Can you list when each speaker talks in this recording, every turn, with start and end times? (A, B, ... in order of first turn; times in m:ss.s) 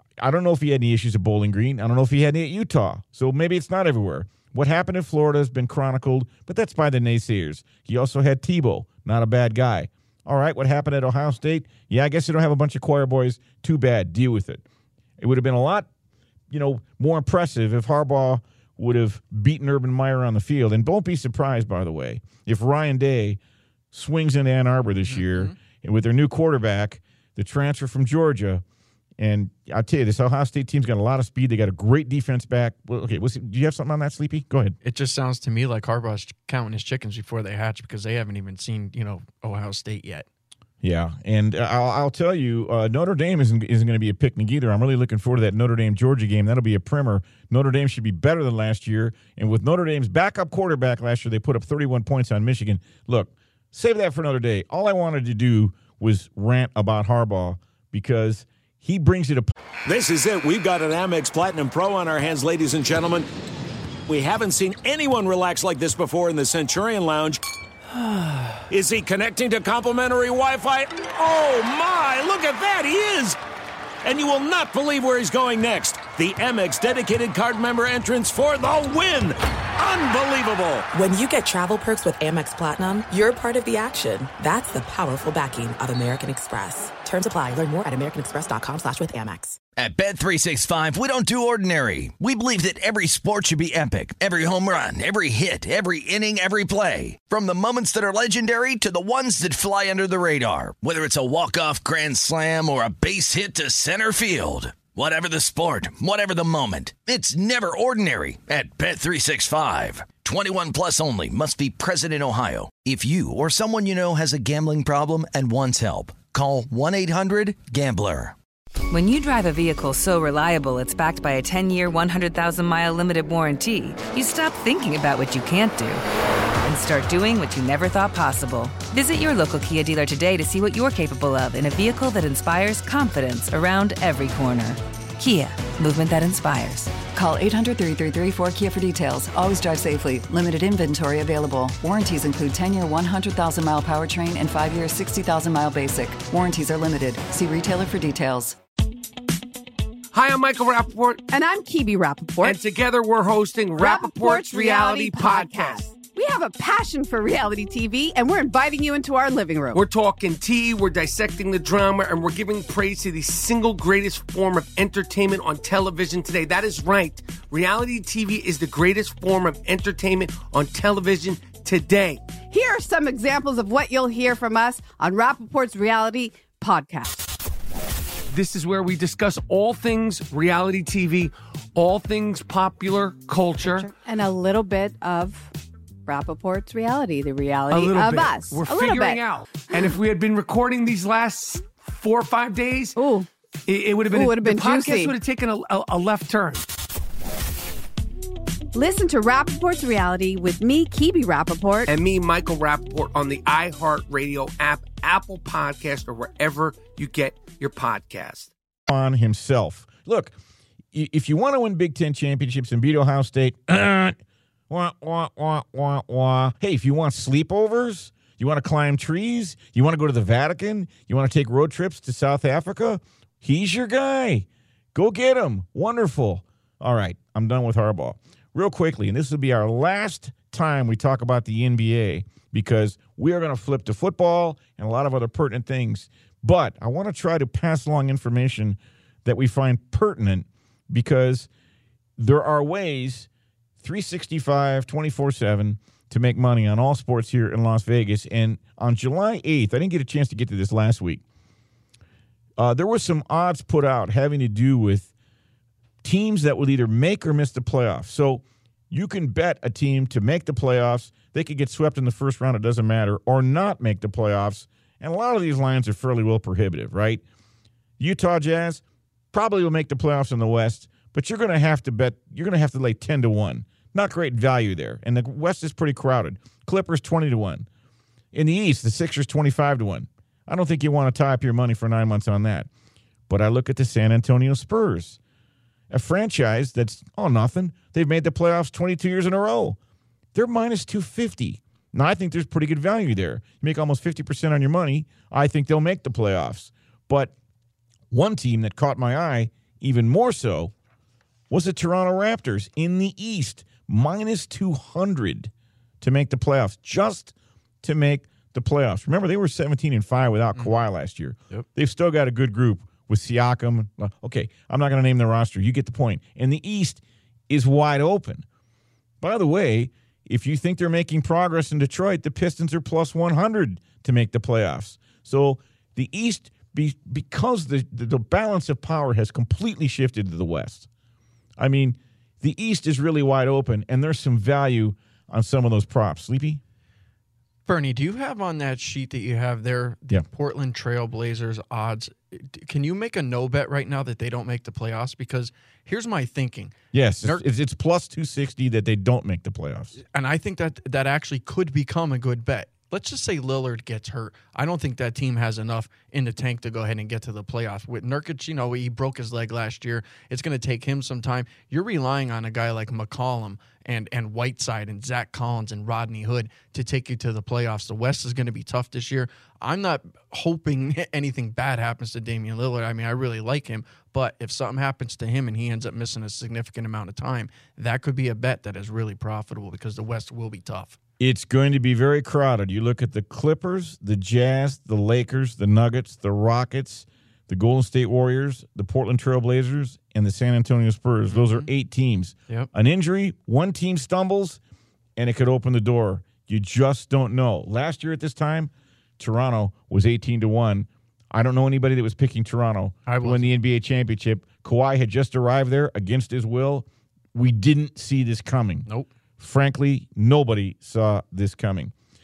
0:00.2-0:14.6 A
0:15.2-0:15.9 A
0:16.5-0:23.4 A
0:23.9-0:28.6 A
0:24.8-0:25.5 B
0:29.2-0:34.7 A
0:34.8-0:40.2 B
0:40.8-0:59.5 A
0:59.9-1:03.2 C
1:04.1-1:07.4 C
1:08.7-1:13.3 C
1:14.1-1:20.8 C
1:20.9-1:29.6 D
1:29.8-1:58.3 E
1:58.9-2:06.0 F
2:06.6-2:17.0 F
2:17.0-2:28.6 G
2:30.1-2:31.2 H
2:31.3-2:32.6 I
2:32.4-2:35.8 H
2:33.8-2:39.8 I
2:39.7-2:52.2 H
2:52.4-2:57.3 I
2:58.3-3:03.9 H
3:03.6-3:05.5 I
3:06.0-3:09.2 I
3:07.7-3:13.0 H
3:13.0-3:13.3 I
3:13.7-3:16.6 H
3:14.1-3:15.1 I
3:18.7-3:21.9 I
3:21.8-3:28.5 H
3:28.9-3:30.3 A
3:30.9-3:34.2 A
3:34.7-4:01.5 A
4:02.2-4:03.3 A
4:03.8-4:11.2 A
4:12.6-4:15.1 A
4:16.0-4:27.2 A
4:28.0-4:37.6 A
4:38.3-4:42.7 A
4:43.3-4:45.2 A
4:45.9-4:49.8 A
4:50.3-4:57.3 A
4:58.1-5:00.7 A
5:01.5-5:18.4 A
5:19.2-5:30.9 A
5:31.6-5:36.6 A
5:37.7-5:47.4 B
5:46.9-5:50.0 A
5:50.0-6:21.0 B
6:21.2-6:34.6 A
6:31.2-6:31.7 B
6:35.2-6:51.9 A
6:43.0-6:43.5 B